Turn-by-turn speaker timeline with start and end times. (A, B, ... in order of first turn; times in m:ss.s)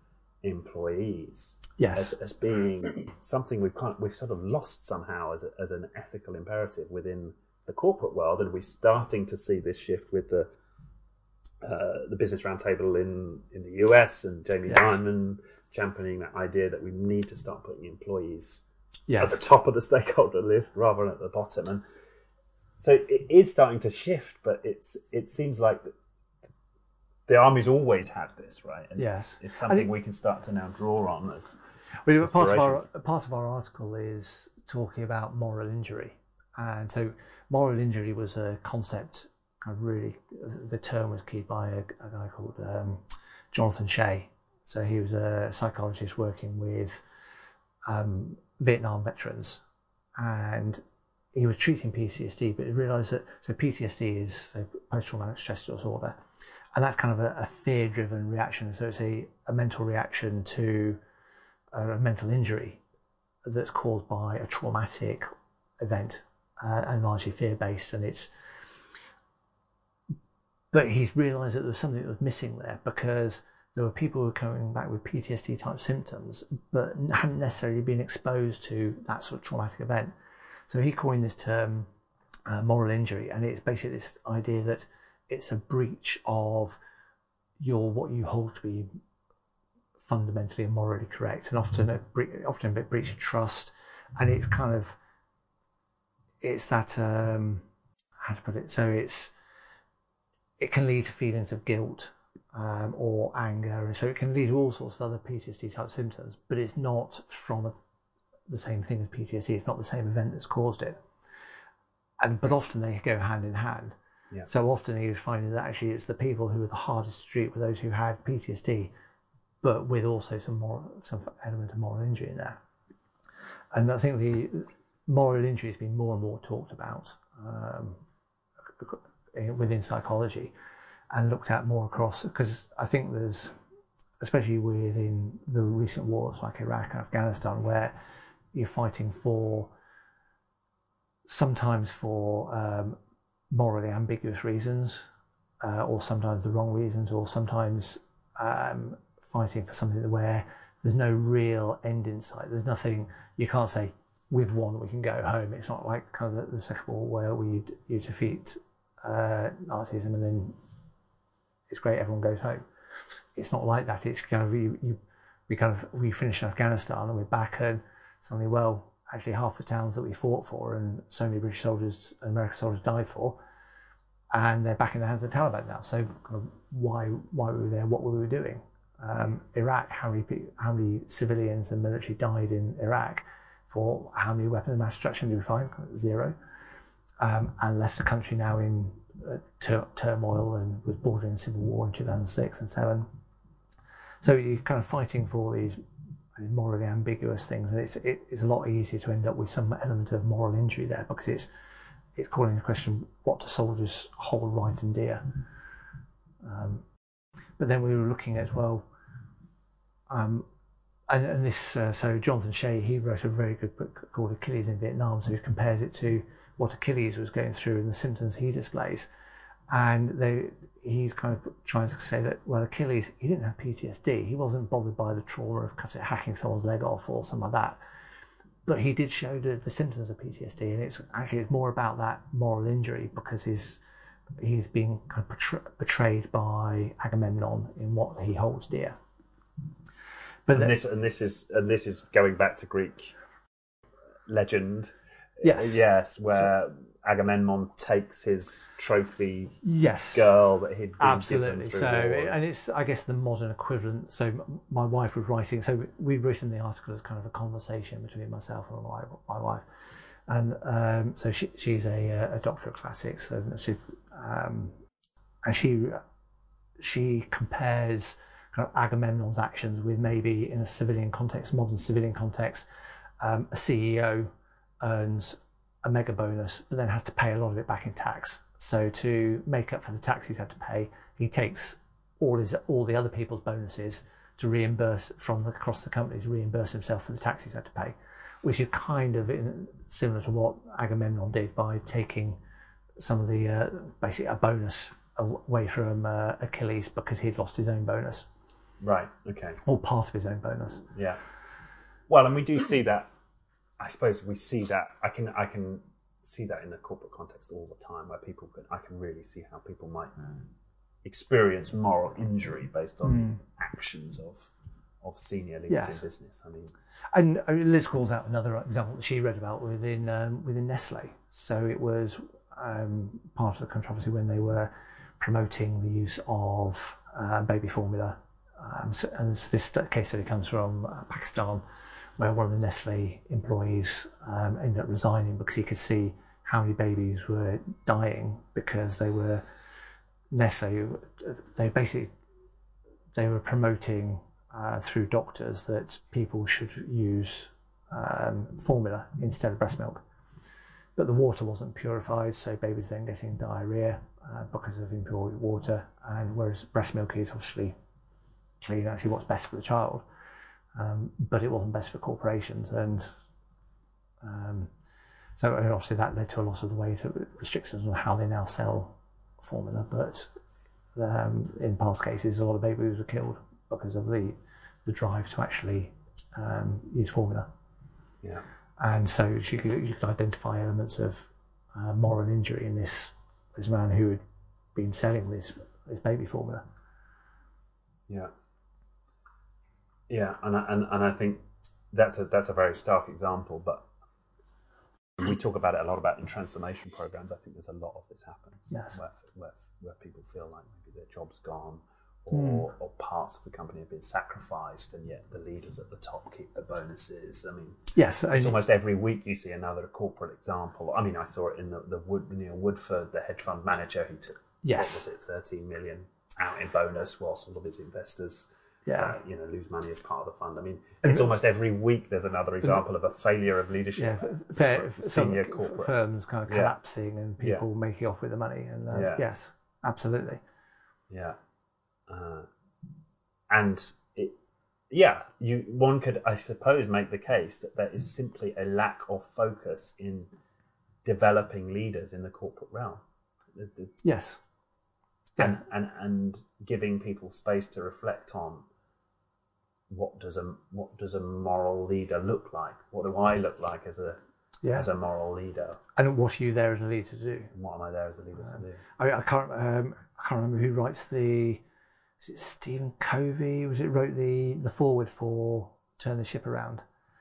0:00.4-0:10.5 A
0:01.8-0:02.2 B
0:11.6-0:18.6 A
0:19.1-0:19.4 B
0:19.2-0:21.8 A
0:22.8-0:25.9 A
0:27.3-0:31.6 A
0:29.0-0:29.9 B
0:32.0-0:47.0 B
0:32.2-0:32.8 A
0:47.8-0:49.6 B
0:50.2-0:50.8 B
0:51.3-0:56.2 B
0:56.7-1:01.0 B
1:01.7-1:02.8 B
1:03.4-1:05.2 B
1:05.8-1:08.3 B
1:10.7-1:20.1 B
1:20.7-1:21.9 B
1:22.5-1:26.8 B
1:27.6-1:28.9 B
1:30.0-1:35.0 B
1:36.4-1:37.6 B
1:38.2-1:39.3 B
1:40.6-1:47.8 B
1:48.5-1:51.0 B
1:52.2-1:58.9 B
1:59.6-2:02.6 B
2:03.7-2:08.0 B
2:08.8-2:10.5 B
2:11.1-2:13.5 B
2:14.2-2:17.9 B
2:18.5-2:19.7 B
2:21.3-2:23.0 B
2:23.5-2:25.1 B
2:25.6-2:40.6 B
2:41.7-2:42.6 B
2:43.3-2:53.4 B
2:54.3-3:06.4 B
3:07.2-3:13.1 B
3:14.2-3:15.8 B
3:16.4-3:21.5 B
3:22.1-3:25.4 B
3:26.4-3:26.8 B
3:27.6-3:28.9 B
3:30.1-3:30.4 B
3:31.1-3:39.1 B
3:39.7-3:47.8 B
3:48.6-3:53.8 B
3:54.4-3:59.0 B
4:00.5-4:00.8 B
4:00.5-4:03.1 A
4:04.2-4:12.4 A
4:05.4-4:05.8 B
4:09.6-4:10.3 B
4:11.0-4:19.6 B
4:20.3-4:24.8 B
4:25.4-4:26.0 B
4:26.8-4:32.6 B
4:33.2-4:52.4 B
4:53.0-4:58.3 B
4:58.8-4:59.6 A
4:59.6-5:00.8 B
5:00.9-5:01.2 A
5:02.1-5:03.1 A
5:03.8-5:10.2 A
5:11.0-5:16.7 A
5:13.0-5:13.3 B
5:15.7-5:16.0 B
5:17.1-5:31.6 B
5:32.2-5:39.4 B
5:40.3-5:42.1 B
5:43.1-5:50.0 B
5:51.0-5:57.7 B
5:58.6-6:00.0 B
6:00.7-6:03.1 B
6:04.2-6:04.7 B
6:05.4-6:10.3 B
6:10.9-6:17.5 B
6:18.8-6:24.2 B
6:24.7-6:26.6 B
6:30.1-6:33.9 A
6:35.2-7:05.9 A
6:38.7-6:39.0 B
6:42.3-6:42.7 B
6:47.9-6:48.6 B
6:54.6-6:55.0 B
6:58.8-6:59.2 B
7:04.0-7:10.4 B
7:06.5-7:06.8 A
7:07.4-7:07.6 A
7:08.9-7:09.2 A
7:11.1-7:11.4 A
7:12.1-7:12.5 A
7:13.5-7:14.4 A
7:14.9-7:20.3 A
7:21.0-7:23.0 A
7:23.5-7:23.9 A
7:24.0-7:24.4 B
7:25.4-7:28.6 A
7:29.9-7:35.8 A
7:34.6-7:34.9 B
7:36.0-7:37.5 B
7:37.5-7:38.8 A
7:38.5-7:41.6 B
7:42.2-7:46.8 B